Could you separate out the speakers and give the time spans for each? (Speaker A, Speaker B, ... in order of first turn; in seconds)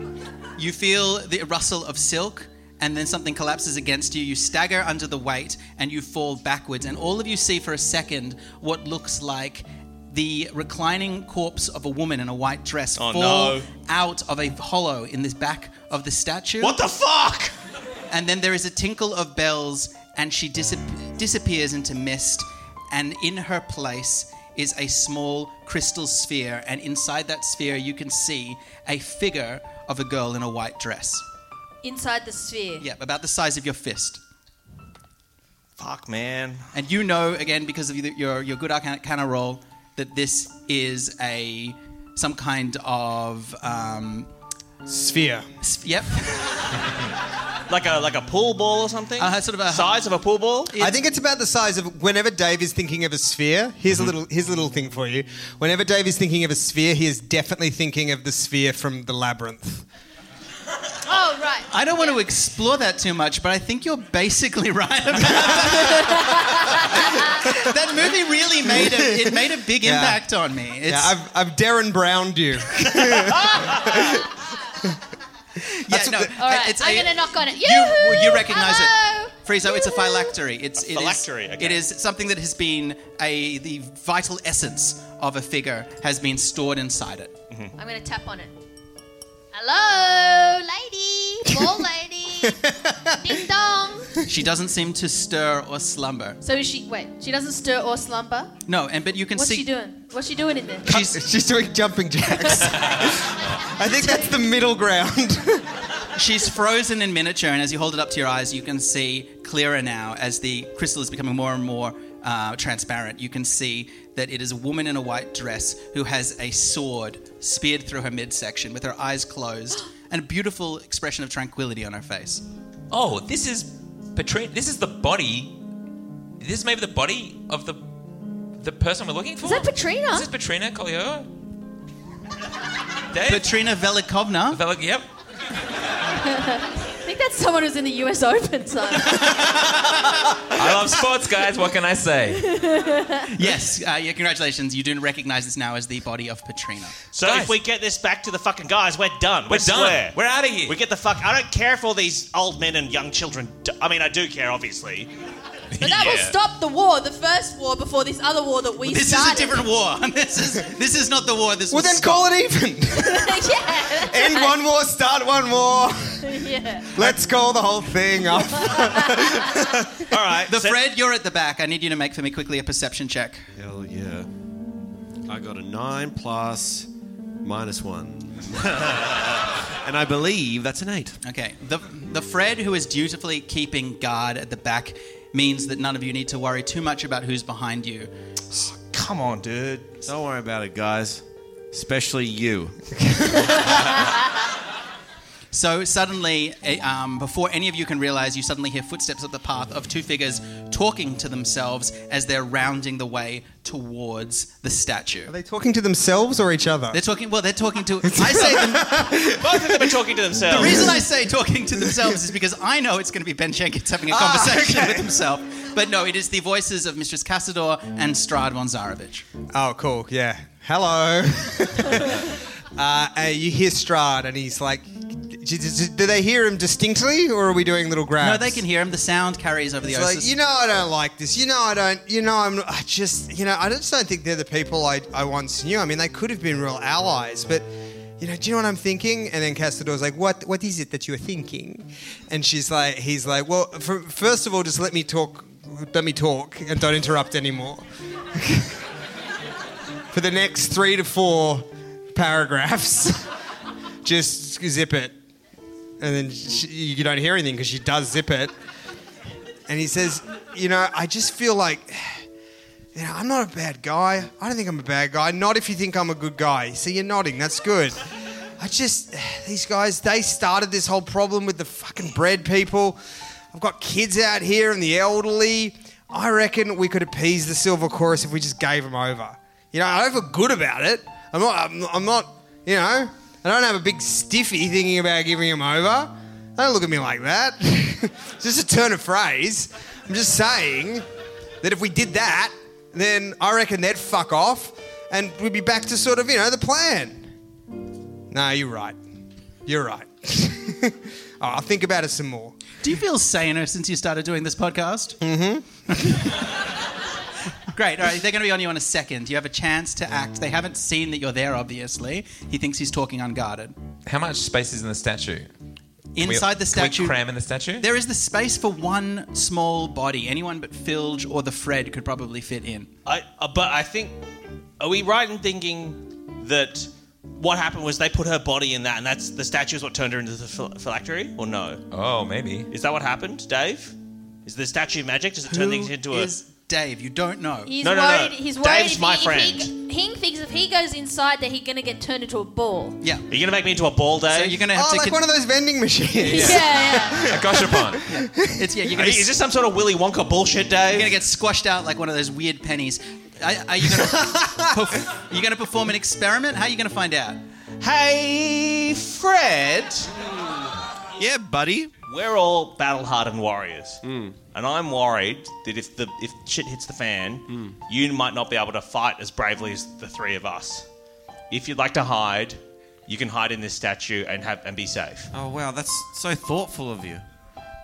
Speaker A: 0.6-16.8, 18.1-31.2, 32.8-34.2, 36.7-44.3, 45.6-46.5, 49.2-50.0, 50.7-51.0, 61.7-66.3, 66.9-71.2, 75.8-87.3, 94.2-96.4, 98.7-99.7, 100.9-101.2, 106.2-122.4, 133.3-134.6, 139.5-140.0, 143.3-147.0, 158.8-162.3, 170.5-173.5, 181.2-188.1, 195.5-205.3, 206.9-209.2, 210.5-219.3, 228.2-230.3, 302.8-305.2, 306.0-306.3, 307.7-313.7, 316.2-317.2, 317.8-322.9, 335.5-337.7, 343.0-343.3, 344.3-345.2, 348.1-349.3, 350.9-357.4
Speaker B: 13.0-13.7, 16.6-17.5, 35.8-36.7, 47.7-50.7, 73.0-74.2, 80.8-81.8, 147.1-155.1, 170.0-170.8, 188.6-190.1, 209.3-211.0, 323.1-324.2, 324.8-331.8, 332.7-333.9, 334.4-336.3, 337.8-339.7, 343.3-344.7, 348.9-351.2, 357.8-360.1, 362.1-370.9, 371.5-375.3
Speaker C: 31.8-32.9, 61.1-62.2, 65.8-67.4, 76.4-80.3, 87.8-88.6, 89.5-92.6, 93.2-94.2, 96.4-98.6, 99.3-101.0, 102.4-102.6, 103.9-104.4, 129.4-130.3, 136.2-139.4, 142.4-143.3, 155.8-159.7, 162.9-164.6, 166.2-166.9, 168.6-169.3, 337.7-343.0, 346.2-347.3
Speaker D: 44.9-45.5, 50.8-59.9, 68.7-70.2, 70.8-74.2, 75.9-76.3, 92.4-93.3, 100.9-105.7, 161.7-166.3, 166.9-169.9, 193.0-193.6, 205.3-207.0, 208.0-209.9, 210.6-211.0, 211.8-212.1, 214.1-215.1, 219.5-228.6, 229.9-237.7, 238.2-248.8, 250.1-253.3, 254.0-255.2, 256.0-258.5, 259.7-262.2, 262.9-268.0, 268.6-273.0, 273.5-291.1, 291.6-297.3, 298.3-299.0, 299.7-302.6, 305.2-306.3, 344.7-348.7, 354.2-354.6
Speaker E: 122.9-125.6, 126.4-127.9, 128.6-131.3, 133.1-133.5, 134.5-135.1, 140.5-142.5, 147.2-147.6, 149.5-150.8, 155.7-156.4, 314.1-315.5, 316.2-317.9, 331.9-332.7, 347.2-348.0
Speaker F: 173.6-174.3, 175.3-176.9, 177.4-181.2, 190.1-192.8, 361.2-361.9, 364.0-364.4, 367.5-367.8, 375.3-377.2